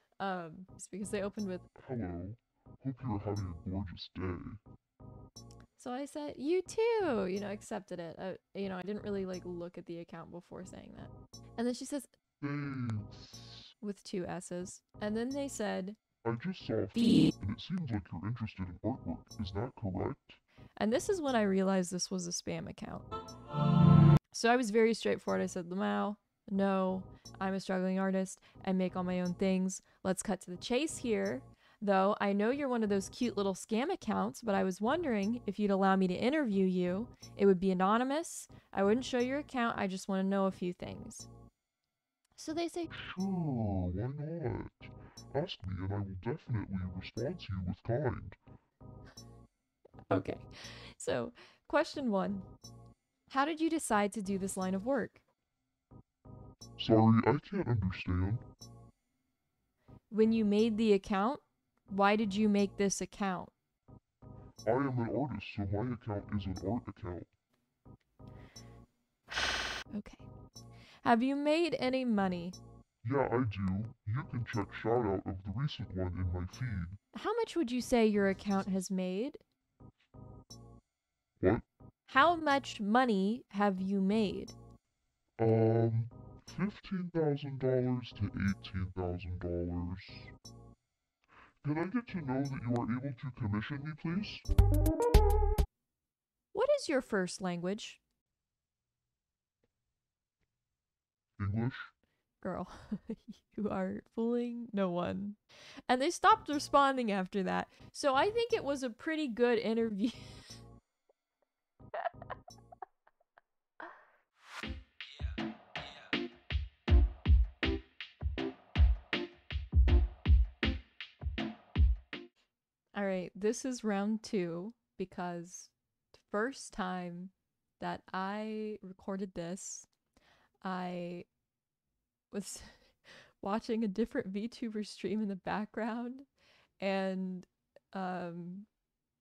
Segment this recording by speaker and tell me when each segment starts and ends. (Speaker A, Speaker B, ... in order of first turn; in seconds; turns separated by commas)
Speaker A: 0.2-1.7, Speaker B: 1.8-4.6, Speaker A: 5.8-12.1, Speaker B: 12.4-13.7, Speaker A: 13.8-16.0, Speaker B: 16.2-20.4, Speaker A: 16.9-17.3, Speaker A: 20.8-23.1, Speaker A: 24.3-41.3, Speaker A: 42.4-42.9, Speaker B: 42.9-48.4, Speaker A: 50.1-52.5, Speaker A: 53.3-55.2, Speaker B: 56.8-58.4, Speaker A: 60.1-63.5, Speaker B: 64.7-67.3, Speaker A: 69.9-70.2, Speaker A: 71.0-72.6, Speaker B: 73.0-77.0, Speaker A: 77.1-79.4, Speaker B: 81.4-81.7, Speaker A: 82.1-84.5, Speaker B: 85.4-90.3, Speaker B: 91.6-94.5, Speaker A: 96.5-98.0, Speaker B: 101.4-101.9, Speaker A: 102.4-105.4, Speaker A: 105.9-110.3, Speaker A: 123.0-129.9, Speaker A: 130.6-131.3, Speaker A: 132.3-136.3, Speaker A: 136.8-138.7